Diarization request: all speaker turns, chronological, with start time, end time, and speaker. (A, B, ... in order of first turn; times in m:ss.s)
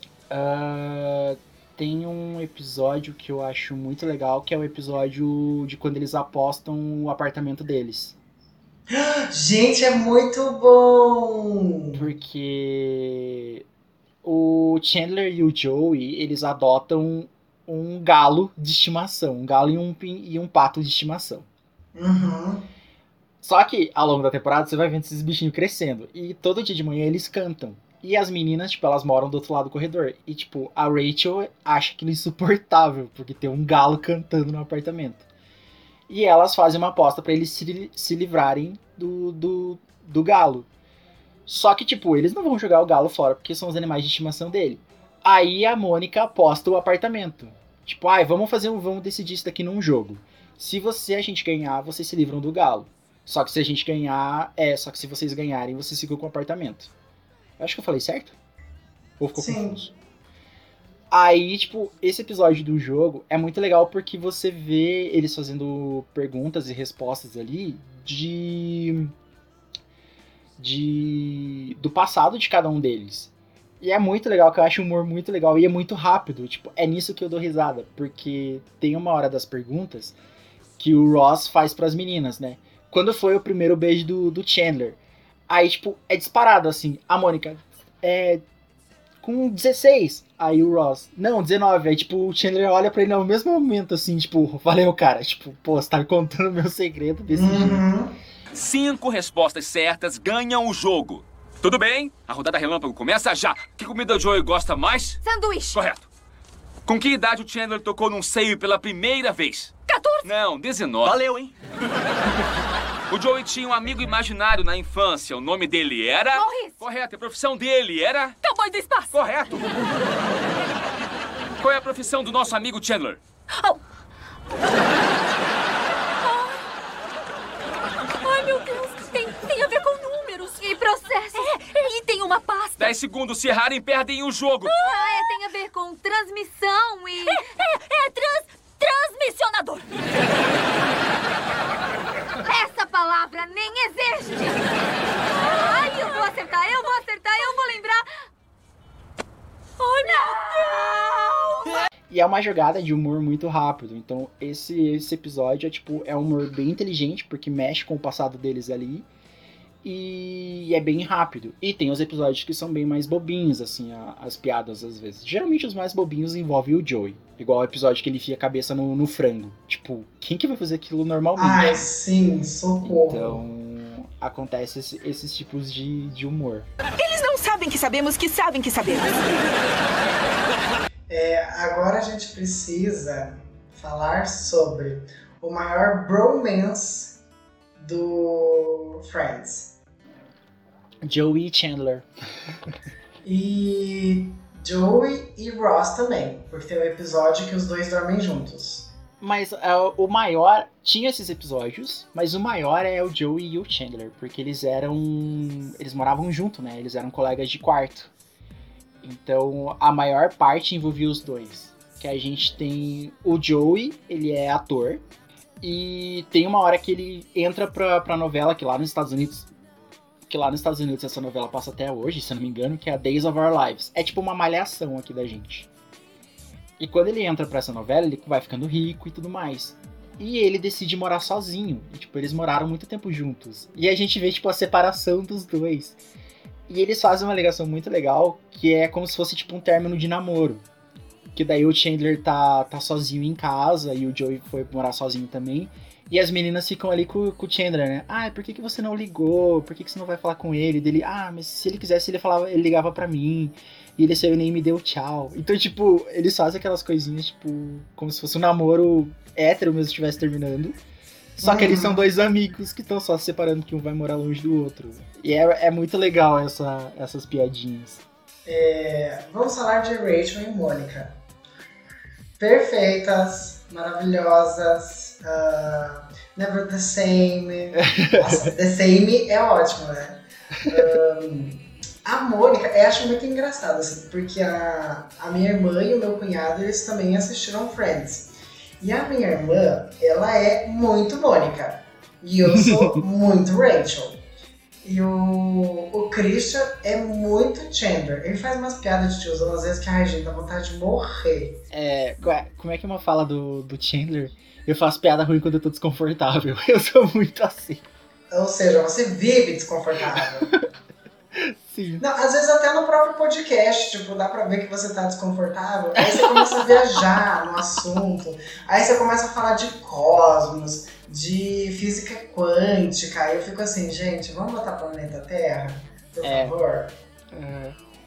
0:00.3-0:08.2 A
0:08.9-0:12.0 B
0:12.0-0:13.6 A
0:14.2-0:21.5 A
0:22.0-0:22.7 B
0:23.4-0:35.2 A
0:36.1-0:40.7 A
0:41.5-0:56.9 A
0:57.6-0:58.4 A
0:59.2-0:59.9 A
0:59.4-0:59.9 B
1:01.1-1:09.1 A
1:10.6-1:20.2 A
1:20.8-1:25.0 A
1:25.5-1:28.4 A
1:29.2-1:37.8 A
1:37.3-1:38.2 B
1:38.5-1:45.2 C
1:45.2-1:45.8 D
1:45.7-1:46.1 C
1:46.9-1:51.5 C
1:49.9-1:50.2 D
1:53.1-1:58.4 C
1:56.3-1:56.7 D
1:58.4-1:59.1 D
1:59.1-1:59.7 C
2:01.6-2:03.2 C
2:06.2-2:06.6 D
2:08.2-2:12.9 D
2:12.8-2:14.7 C
2:14.7-2:19.9 D
2:22.5-2:24.6 D
2:25.3-2:28.1 D
2:29.8-2:31.6 D
2:32.1-2:39.1 A
2:39.8-2:51.9 A
2:51.4-2:53.4 B
2:52.8-2:56.7 A
2:57.0-2:59.3 E
3:01.1-3:07.2 B
3:07.8-3:09.8 B
3:11.0-3:12.1 A
3:13.2-3:18.9 B
3:19.2-3:28.1 A
3:29.0-3:35.0 A
3:35.6-3:39.5 A
3:40.3-3:45.7 A
3:46.8-3:56.0 A
3:56.7-4:00.6 A
4:01.4-4:20.8 A
4:21.4-4:28.0 A
4:21.4-4:22.0 B
4:28.4-4:31.2 B
4:32.4-4:54.2 B
4:37.8-4:38.5 A
4:52.5-4:53.0 A
4:54.8-5:01.6 B
5:01.7-5:07.8 A
5:08.3-5:10.5 B
5:10.4-5:10.7 A
5:11.4-5:12.0 A
5:12.0-5:27.0 B
5:16.0-5:17.0 A
5:26.2-5:26.6 A
5:27.3-5:27.8 A